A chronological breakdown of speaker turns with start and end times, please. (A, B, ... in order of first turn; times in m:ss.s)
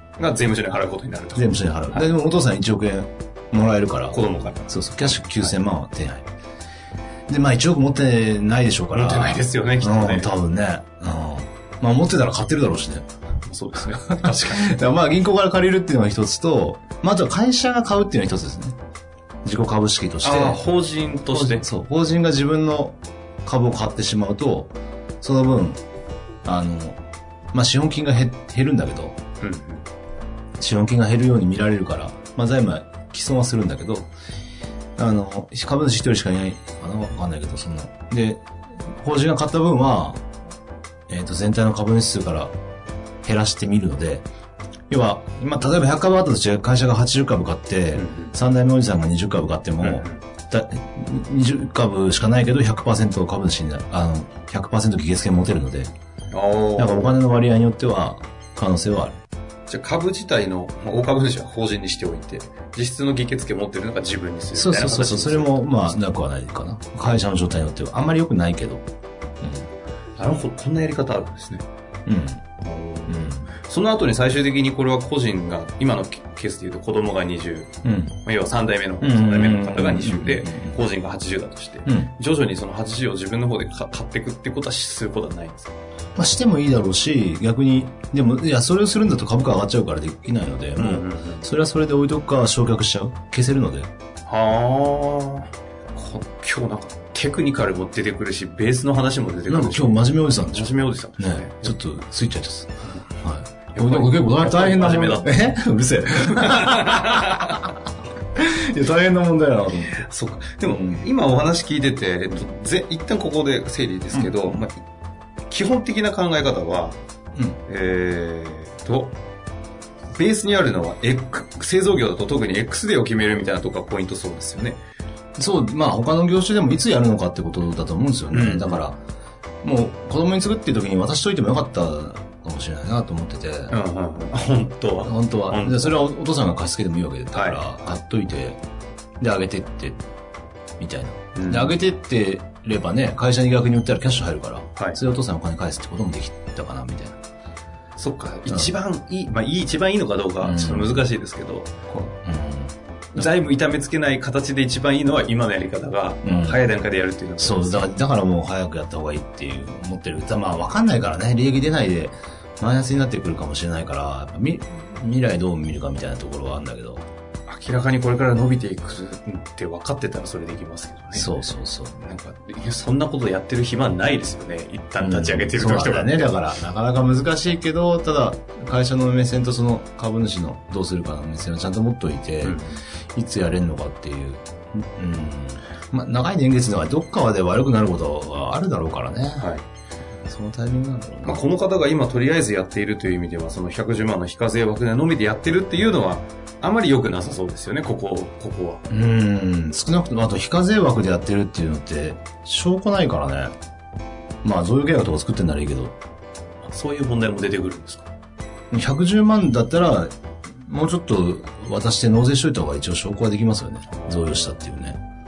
0:00.2-0:02.0 A
0:01.3-0:06.2 B
0:04.1-0:05.6 A
0:07.3-0:13.0 B
0:08.9-0:10.3 A
0:13.4-0:14.7 A
0:13.9-0:18.7 B
0:19.4-0:20.6 B
0:20.2-0:21.6 A
0:21.3-0:25.8 B
0:26.4-0:27.0 B
0:27.5-0:29.2 B
0:29.4-0:29.8 A
0:30.6-0:34.1 B
0:35.0-0:40.2 B
0:41.1-0:42.5 B
0:43.2-0:44.2 B
0:44.9-0:55.9 B
0:47.9-0:48.3 A
0:49.8-0:50.2 A
0:56.3-0:57.2 A
0:56.8-0:59.2 B
0:59.7-1:06.0 A
1:04.5-1:08.8 B
1:09.4-1:09.7 B
1:10.2-1:11.6 A
1:12.0-1:12.4 B
1:12.6-1:17.7 A
1:13.1-1:13.5 B
1:17.8-1:18.2 B
1:18.2-1:25.7 A
1:19.0-1:20.8 B
1:21.8-1:22.1 B
1:26.2-1:33.9 B
1:30.8-1:31.5 A
1:34.3-1:41.8 A
1:39.5-1:47.7 B
1:43.7-1:45.4 A
1:46.2-1:47.7 A
1:48.4-1:50.1 B
1:50.0-1:54.8 A
1:50.6-1:51.0 B
1:54.1-1:54.6 B
1:55.5-1:57.0 A
1:57.7-1:59.1 A
2:00.2-2:04.8 A
2:05.4-2:09.0 B
2:08.3-2:08.8 A
2:09.6-2:13.7 B
2:13.7-2:16.0 A
2:15.0-2:18.6 B
2:17.3-2:17.8 A
2:19.2-2:20.0 B
2:20.8-2:27.2 B
2:21.3-2:21.8 A
2:28.0-2:31.7 A
2:30.4-2:31.1 B
2:31.9-2:33.2 B
2:33.1-2:37.9 A
2:36.2-2:36.6 B
2:37.4-2:47.0 B
2:47.5-2:51.3 A
2:51.1-2:52.0 B
2:52.0-2:56.3 A
2:55.0-3:02.6 B
3:02.4-3:02.8 A
3:03.1-3:09.5 B
3:09.4-3:09.6 A
3:10.2-3:11.4 B
3:11.2-3:18.8 A
3:18.9-3:23.5 B
3:24.4-3:25.9 B
3:26.6-3:28.1 A
3:28.7-3:35.0 B
3:33.9-3:34.7 A